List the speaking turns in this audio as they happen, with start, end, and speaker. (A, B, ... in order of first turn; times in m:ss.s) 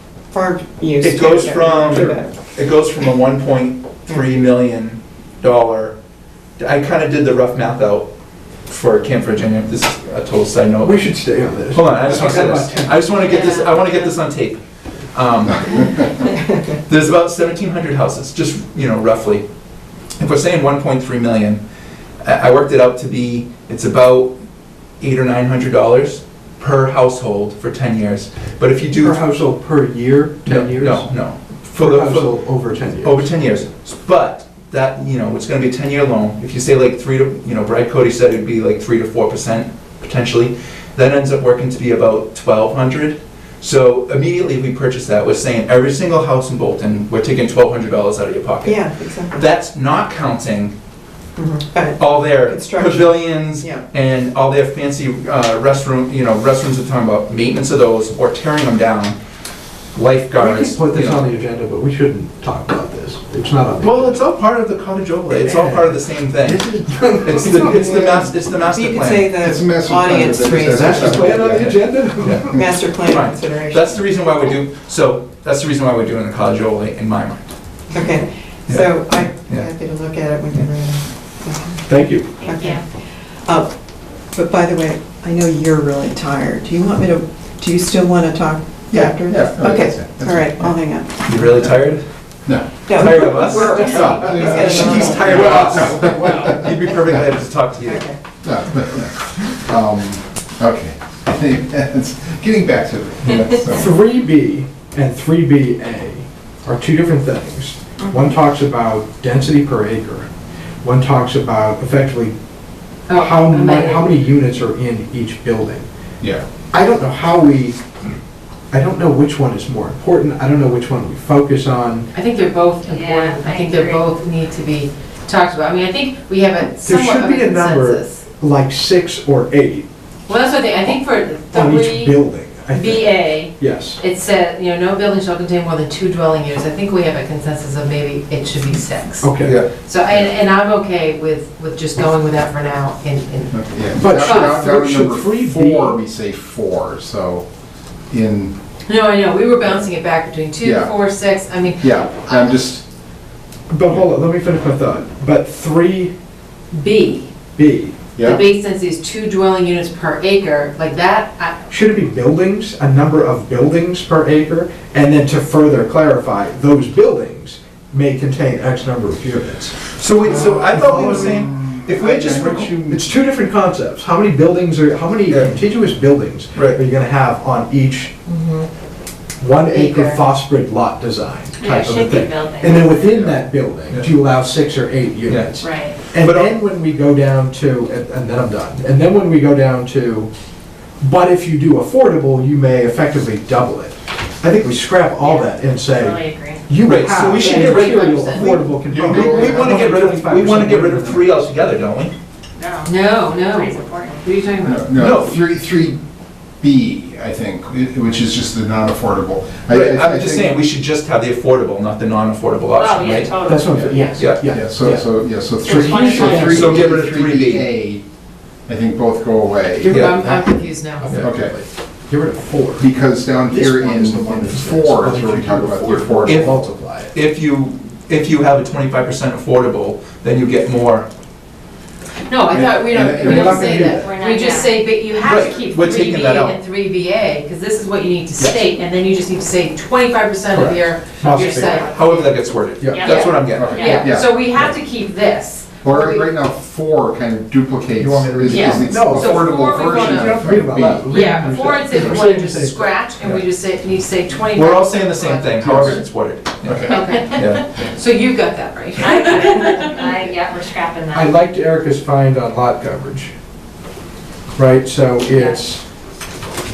0:00.3-0:02.4 A
0:01.0-0:06.0 B
0:06.6-0:08.1 B
0:08.7-0:14.6 B
0:10.8-0:13.2 C
0:13.2-0:14.1 D
0:15.1-0:16.1 B
0:16.9-0:19.4 B
0:20.2-0:21.6 B
0:22.2-0:24.4 B
0:25.0-0:29.2 B
0:29.0-0:31.1 C
0:30.4-0:32.3 B
0:31.7-0:33.3 C
0:33.0-0:50.7 B
0:48.6-0:49.5 A
0:51.4-0:53.9 A
0:52.0-0:59.2 B
1:00.0-1:01.2 B
1:00.4-1:04.2 C
1:03.8-1:06.6 B
1:05.3-1:08.1 C
1:07.2-1:09.6 B
1:07.7-1:11.5 A
1:09.4-1:12.0 E
1:10.7-1:12.5 C
1:12.1-1:17.5 B
1:12.5-1:14.0 A
1:17.9-1:21.9 A
1:18.7-1:19.7 B
1:21.9-1:22.3 C
1:22.4-1:22.8 F
1:22.4-1:22.9 A
1:23.4-1:23.7 A
1:24.3-1:31.1 A
1:28.9-1:30.5 E
1:31.2-1:32.0 B
1:32.5-1:32.8 E
1:32.9-1:35.7 A
1:32.9-1:38.1 B
1:34.1-1:37.3 E
1:34.5-1:36.6 C
1:37.8-1:38.2 A
1:38.4-1:43.9 E
1:43.7-1:50.3 C
1:50.8-1:52.3 C
1:53.1-1:54.2 D
1:53.1-1:55.9 C
1:56.2-1:56.5 E
1:56.7-1:57.8 C
1:58.7-2:02.1 C
2:02.1-2:08.2 D
2:02.8-2:04.1 F
2:06.8-2:09.9 C
2:10.3-2:24.6 D
2:11.5-2:14.0 C
2:19.2-2:19.6 C
2:19.4-2:19.7 B
2:23.5-2:27.5 E
2:24.0-2:26.0 C
2:28.1-2:28.6 E
2:28.9-2:32.4 D
2:30.6-2:30.9 E
2:31.8-2:32.9 E
2:33.7-2:36.1 C
2:36.7-2:37.3 D
2:37.6-2:38.0 C
2:38.2-2:38.4 E
2:38.2-2:41.6 D
2:41.7-2:58.2 C
2:50.0-2:53.0 B
2:51.3-2:52.9 E
2:55.3-2:55.6 B
2:56.6-2:56.8 B
2:58.3-2:58.7 D
2:59.4-3:10.3 C
2:59.6-3:00.2 D
3:01.6-3:03.3 F
3:03.1-3:03.3 E
3:05.2-3:05.5 B
3:05.6-3:06.0 F
3:06.2-3:06.6 B
3:11.0-3:21.5 C
3:15.2-3:16.7 F
3:16.8-3:22.1 B
3:17.3-3:19.7 D
3:22.6-3:24.2 F
3:22.8-3:24.9 D
3:24.6-3:26.0 E
3:25.0-3:25.5 B
3:26.6-3:30.6 E
3:29.7-3:33.3 B
3:32.8-3:34.1 F
3:33.5-3:36.9 C
3:33.7-3:38.0 E
3:34.1-3:34.5 B
3:35.6-3:36.6 F
3:36.3-3:37.7 B
3:38.7-3:40.0 E
3:39.8-3:41.1 D
3:39.9-3:40.2 B
3:39.9-3:47.2 C
3:41.2-3:41.6 E
3:42.8-3:46.6 E
3:46.2-3:46.5 B
3:47.1-3:51.1 B
3:52.3-4:02.4 D
3:52.5-3:54.0 E
3:53.1-3:54.1 C
3:53.9-3:54.8 F
3:55.2-3:56.6 B
3:58.4-3:58.6 C
4:00.5-4:01.9 C
4:01.9-4:03.8 B
4:02.8-4:03.1 C
4:02.9-4:04.1 F
4:03.0-4:06.4 D
4:03.5-4:04.4 E
4:05.8-4:11.3 E
4:08.0-4:09.0 B
4:08.5-4:10.5 D
4:08.8-4:12.9 C
4:11.1-4:15.6 D
4:14.5-4:17.7 B
4:15.6-4:16.0 E
4:16.6-4:17.1 E
4:16.9-4:20.0 D
4:19.0-4:21.4 F
4:21.1-4:23.3 C
4:24.6-4:25.8 C
4:25.3-4:25.6 F